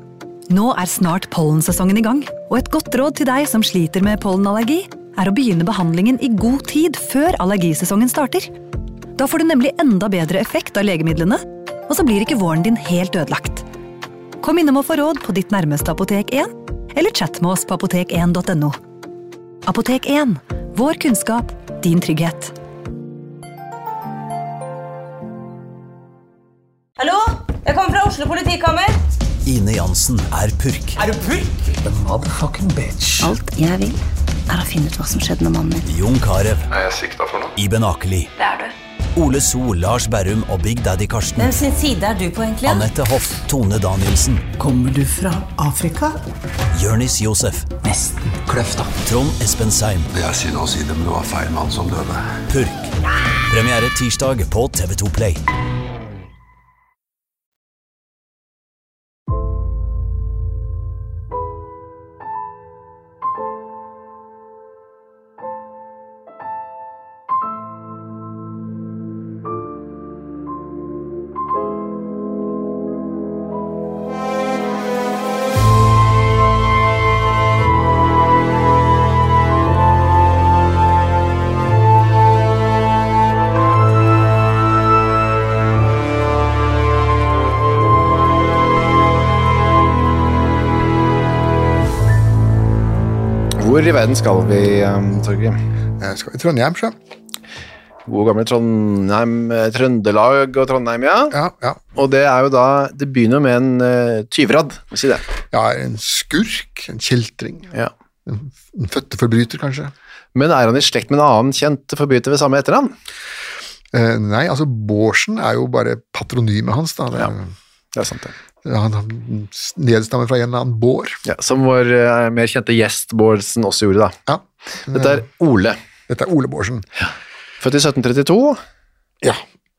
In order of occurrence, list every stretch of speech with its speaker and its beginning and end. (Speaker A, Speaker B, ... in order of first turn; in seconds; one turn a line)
Speaker A: 0.5-8.5
Speaker A: 9.2-13.6
Speaker A: 14.4-18.8
Speaker A: 19.6-22.5
Speaker B: 27.0-29.0
Speaker C: 29.4-31.0
Speaker D: 31.0-33.3
Speaker E: 33.2-35.9
Speaker C: 35.8-36.7
Speaker F: 36.7-37.5
Speaker C: 37.6-38.3
Speaker B: 38.4-38.7
Speaker C: 39.1-41.5
Speaker B: 41.4-42.9
Speaker C: 42.6-44.5
Speaker D: 44.6-46.2
Speaker C: 46.7-47.7
Speaker D: 47.8-48.9
Speaker C: 49.0-50.1
Speaker F: 50.1-52.2
Speaker C: 52.5-52.9
Speaker C: 53.5-55.4
Speaker G: 93.6-95.6
Speaker H: 96.0-96.9
Speaker G: 98.1-101.4
Speaker H: 101.3-101.8
Speaker G: 101.9-105.2
Speaker H: 105.5-107.7
Speaker H: 108.2-109.9
Speaker G: 110.3-112.9
Speaker H: 113.9-117.5
Speaker G: 117.9-118.3
Speaker H: 118.6-121.2
Speaker G: 121.2-124.2
Speaker H: 124.3-125.2
Speaker G: 124.9-125.8
Speaker H: 126.1-126.8
Speaker G: 127.6-128.6